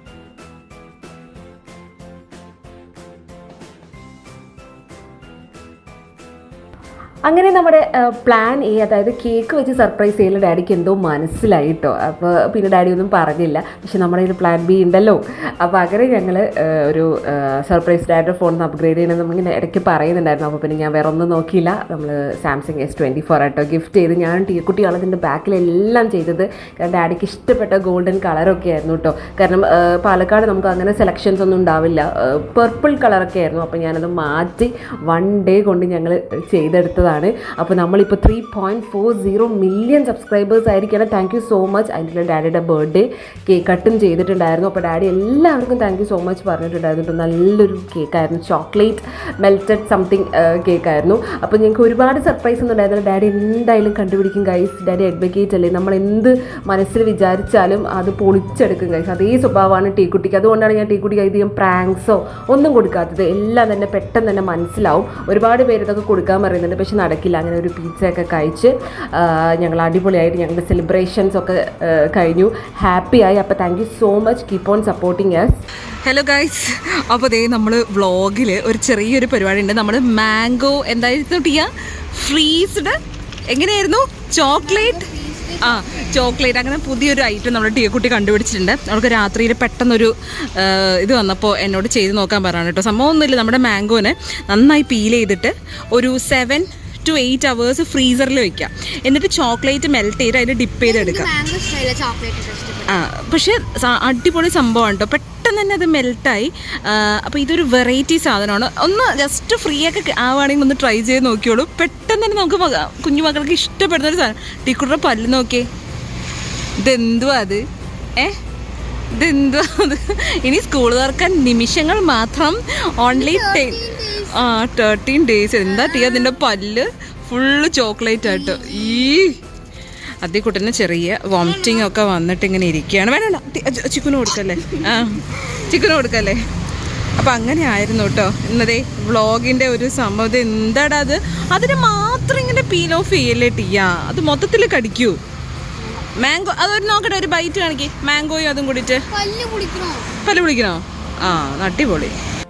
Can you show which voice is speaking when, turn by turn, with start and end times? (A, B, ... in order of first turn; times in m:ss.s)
0:07.3-1:15.5 A
1:16.0-1:23.0 B
1:23.5-1:25.1 B
1:24.4-1:25.9 C
1:25.6-1:41.3 B
1:40.8-1:43.0 C
1:42.9-1:55.7 B
1:56.8-1:57.6 B
1:59.2-2:09.4 B
2:03.1-2:04.6 C
2:05.6-2:06.4 C
2:08.2-2:09.1 C
2:10.2-2:16.4 B
2:11.4-2:11.9 C
2:14.6-2:15.0 C
2:17.2-2:25.2 B
2:25.8-2:26.1 C
2:26.2-2:29.0 B
2:29.1-2:30.1 C
2:30.2-2:32.2 B